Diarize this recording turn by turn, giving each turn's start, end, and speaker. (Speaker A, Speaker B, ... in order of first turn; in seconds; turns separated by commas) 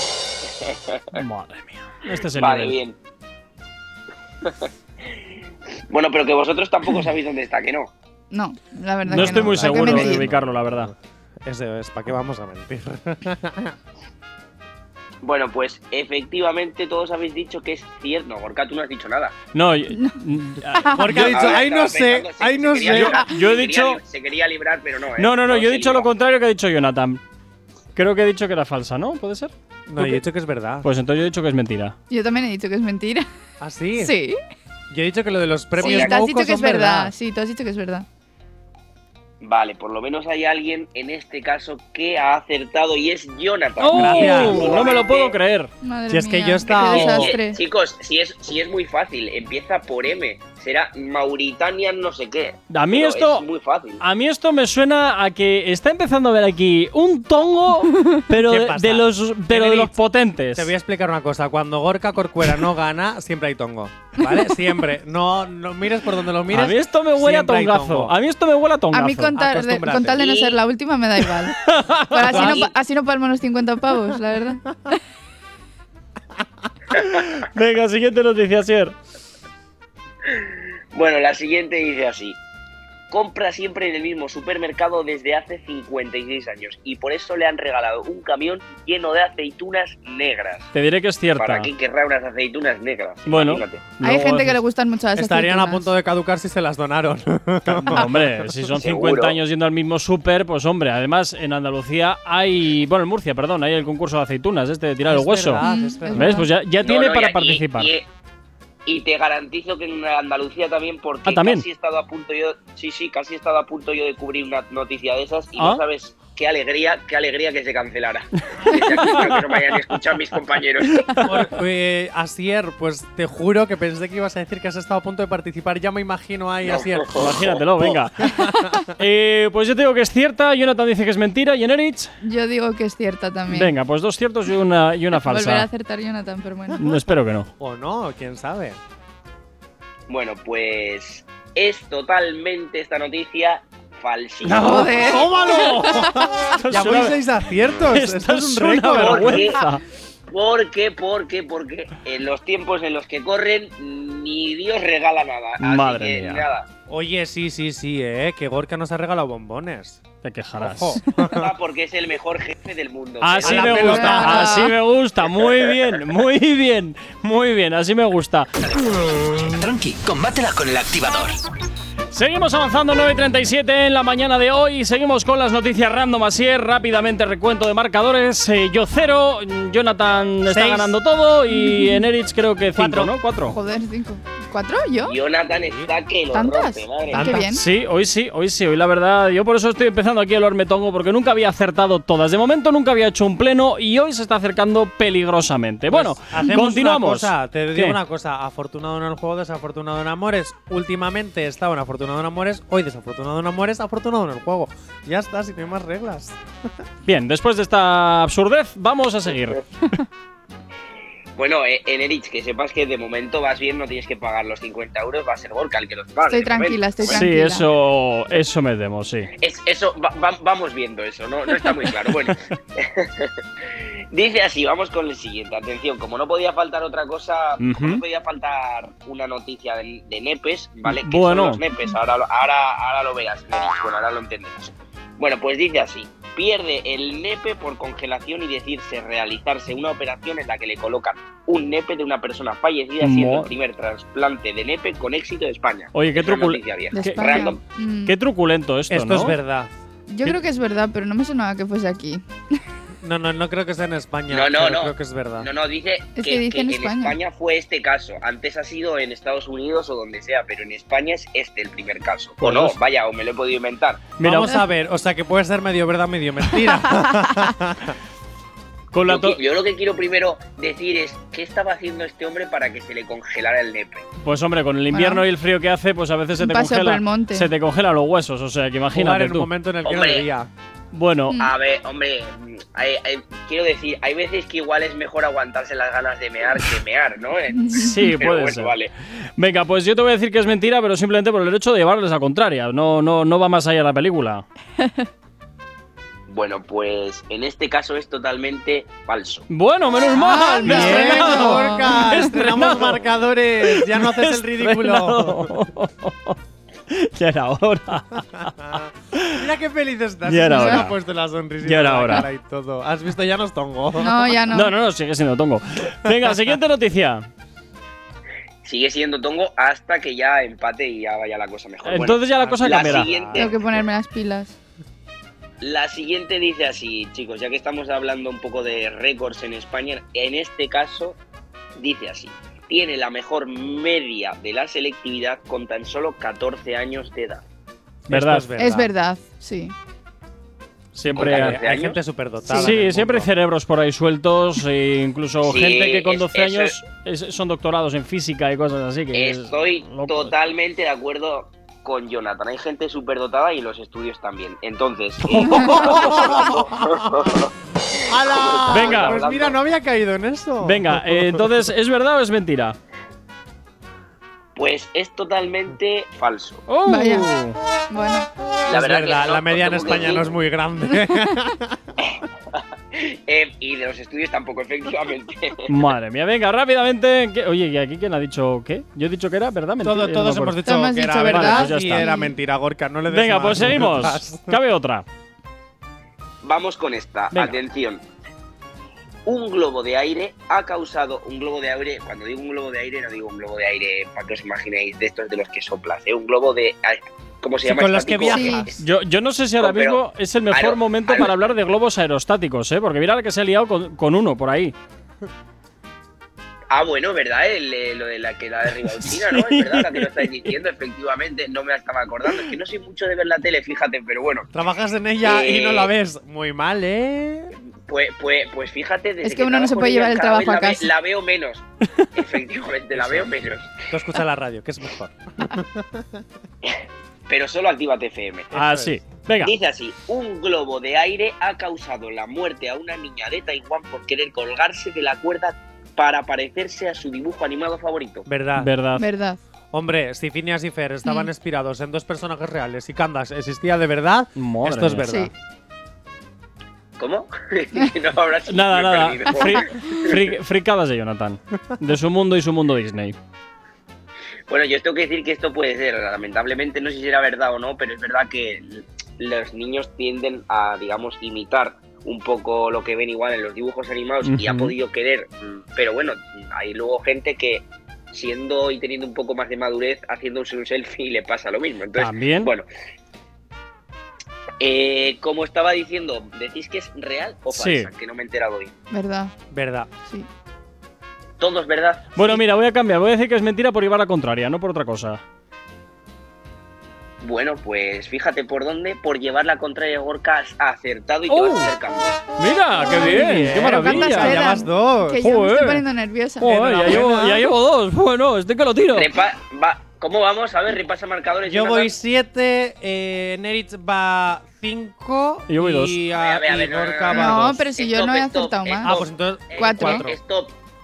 Speaker A: 0.6-1.0, Speaker B: 1.1-2.8, Speaker A: 2.3-3.0, Speaker A: 5.9-7.9, Speaker C: 8.3-10.3, Speaker D: 9.1-13.8, Speaker B: 9.1-10.9, Speaker A: 15.2-19.4, Speaker B: 19.5-21.4, Speaker C: 20.7-21.2, Speaker D: 20.9-23.2, Speaker A: 21.1-26.1, Speaker B: 22.9-24.0, Speaker B: 25.2-27.2, Speaker B: 27.9-30.2, Speaker D: 29.9-30.9, Speaker B: 30.8-31.9, Speaker C: 32.1-33.3, Speaker D: 33.6-34.1, Speaker C: 34.0-34.4, Speaker D: 34.9-37.1, Speaker C: 35.8-38.1, Speaker A: 35.8-36.2, Speaker A: 39.4-45.4, Speaker B: 43.8-45.7, Speaker D: 43.9-44.9, Speaker C: 45.8-47.6, Speaker D: 46.1-47.4, Speaker A: 46.7-54.0, Speaker B: 52.7-53.5, Speaker B: 54.0-60.7, Speaker D: 58.3-60.0, Speaker D: 60.5-68.2, Speaker B: 66.5-69.4, Speaker C: 68.9-71.6, Speaker D: 69.3-70.3, Speaker A: 70.2-70.6, Speaker B: 71.6-72.6, Speaker C: 72.1-74.9, Speaker A: 72.4-72.7, Speaker B: 77.0-79.0, Speaker A: 80.9-82.4, Speaker A: 83.1-90.7, Speaker B: 90.7-91.7, Speaker A: 91.4-93.9, Speaker B: 93.3-94.6, Speaker C: 94.0-95.9, Speaker D: 95.2-98.6, Speaker B: 97.7-107.9, Speaker A: 98.7-99.4, Speaker D: 105.0-106.5, Speaker C: 105.6-106.5, Speaker A: 106.8-108.1, Speaker A: 108.9-121.2, Speaker B: 111.2-111.7, Speaker B: 115.6-115.8, Speaker B: 119.0-120.0, Speaker B: 120.9-121.5, Speaker D: 121.2-128.9, Speaker A: 126.7-127.6, Speaker B: 127.2-132.1, Speaker C: 132.2-133.7, Speaker B: 133.5-135.7, Speaker C: 135.2-136.9, Speaker B: 136.8-137.5, Speaker D: 137.6-138.8, Speaker A: 140.1-144.9, Speaker B: 144.4-145.1, Speaker C: 144.6-146.3, Speaker D: 144.8-149.5, Speaker B: 146.6-147.2, Speaker B: 147.8-149.8, Speaker A: 148.9-149.6, Speaker A: 150.3-156.7, Speaker B: 155.6-156.5, Speaker D: 156.9-160.0, Speaker B: 160.2-161.0, Speaker D: 160.6-161.5, Speaker A: 161.2-164.2, Speaker B: 163.2-168.5, Speaker D: 163.4-164.7, Speaker C: 163.8-164.8, Speaker A: 165.4-166.0, Speaker E: 168.6-171.4, Speaker B: 172.1-183.6, Speaker D: 180.5-181.0, Speaker C: 181.5-182.1, Speaker D: 182.7-183.2, Speaker C: 183.5-185.2, Speaker A: 185.0-187.3, Speaker D: 185.5-185.9, Speaker C: 186.3-187.6, Speaker D: 187.1-187.5, Speaker B: 187.4-198.0, Speaker D: 195.9-206.4, Speaker B: 207.1-209.6, Speaker A: 211.4-217.2, Speaker C: 216.2-217.7, Speaker B: 217.1-219.3, Speaker A: 219.4-223.3, Speaker A: 224.1-247.6, Speaker B: 227.6-228.0, Speaker B: 230.8-231.6, Speaker B: 243.0-243.5, Speaker B: 245.9-249.4, Speaker C: 246.9-248.2, Speaker D: 248.9-249.7, Speaker C: 250.1-252.2, Speaker D: 253.0-255.5, Speaker A: 254.3-264.1, Speaker C: 256.2-257.2, Speaker B: 262.4-262.8, Speaker B: 264.2-264.5, Speaker D: 264.2-268.0, Speaker C: 266.6-267.5, Speaker B: 268.9-269.4, Speaker A: 269.1-274.1, Speaker B: 274.2-279.5, Speaker C: 274.9-275.2, Speaker C: 276.4-277.5, Speaker D: 278.9-280.5, Speaker A: 279.8-280.3, Speaker B: 280.9-281.4, Speaker A: 281.4-288.9, Speaker C: 287.6-288.1, Speaker B: 287.7-288.8, Speaker B: 289.4-294.4, Speaker A: 296.3-299.5, Speaker B: 299.5-303.0, Speaker C: 300.1-302.2, Speaker D: 300.6-305.6, Speaker B: 303.6-306.4, Speaker B: 306.9-309.4, Speaker D: 308.6-314.4, Speaker B: 310.3-310.9, Speaker C: 310.5-310.9, Speaker B: 311.6-312.3, Speaker C: 314.0-314.8, Speaker B: 314.5-317.3, Speaker A: 318.6-323.7, Speaker B: 321.8-323.1, Speaker D: 322.4-323.9, Speaker C: 323.4-324.5, Speaker A: 325.6-331.2, Speaker A: 331.8-337.4, Speaker D: 338.1-338.9, Speaker B: 338.1-338.5, Speaker C: 338.6-339.8, Speaker B: 341.0-341.6, Speaker D: 341.0-343.3, Speaker A: 341.1-342.0, Speaker B: 342.5-350.4, Speaker A: 345.4-346.8, Speaker A: 349.1-357.5, Speaker B: 355.2-356.2, Speaker C: 355.6-356.4, Speaker D: 355.8-357.2, Speaker D: 358.1-361.5, Speaker A: 358.1-359.6, Speaker B: 358.7-359.2, Speaker B: 360.6-362.8, Speaker A: 364.6-366.6, Speaker B: 366.7-367.6, Speaker C: 366.9-367.3, Speaker C: 367.9-368.3, Speaker A: 368.7-370.3, Speaker D: 368.7-371.8, Speaker A: 372.9-375.7, Speaker B: 375.7-380.6, Speaker D: 379.8-384.6, Speaker C: 380.6-382.4, Speaker B: 381.2-382.1, Speaker B: 383.1-385.1, Speaker A: 386.4-388.0, Speaker A: 389.3-398.8, Speaker D: 397.6-398.7, Speaker C: 398.3-398.7, Speaker B: 398.8-404.7, Speaker A: 399.6-401.4, Speaker A: 406.7-414.5, Speaker B: 408.9-410.5, Speaker D: 414.5-417.5, Speaker A: 415.2-415.9, Speaker A: 417.9-423.7, Speaker C: 419.2-420.9, Speaker D: 422.9-423.3, Speaker D: 423.9-426.2, Speaker A: 427.3-428.5, Speaker D: 428.5-429.0, Speaker B: 428.5-429.6, Speaker A: 429.4-438.3, Speaker D: 438.3-438.7, Speaker B: 438.6-439.1, Speaker C: 439.0-439.4, Speaker D: 439.7-445.3, Speaker C: 441.1-441.3, Speaker B: 444.4-445.1, Speaker C: 445.1-445.3, Speaker A: 447.0-450.3, Speaker B: 448.5-453.2, Speaker A: 454.5-472.7, Speaker B: 464.2-464.7, Speaker B: 471.9-472.5, Speaker A: 474.6-478.7, Speaker B: 477.5-477.9, Speaker C: 478.9-479.3, Speaker D: 479.5-479.9, Speaker A: 481.4-482.4, Speaker B: 482.2-485.2, Speaker A: 487.2-492.2, Speaker B: 491.3-491.7, Speaker B: 492.4-494.4, Speaker D: 492.9-495.2, Speaker C: 493.6-496.5, Speaker B: 495.2-495.8, Speaker B: 496.4-499.1, Speaker D: 496.4-497.5, Speaker A: 498.9-501.9, Speaker D: 501.5-507.6, Speaker B: 505.5-506.0, Speaker A: 506.1-510.6, Speaker C: 507.1-509.0, Speaker D: 508.9-510.1, Speaker C: 509.6-510.1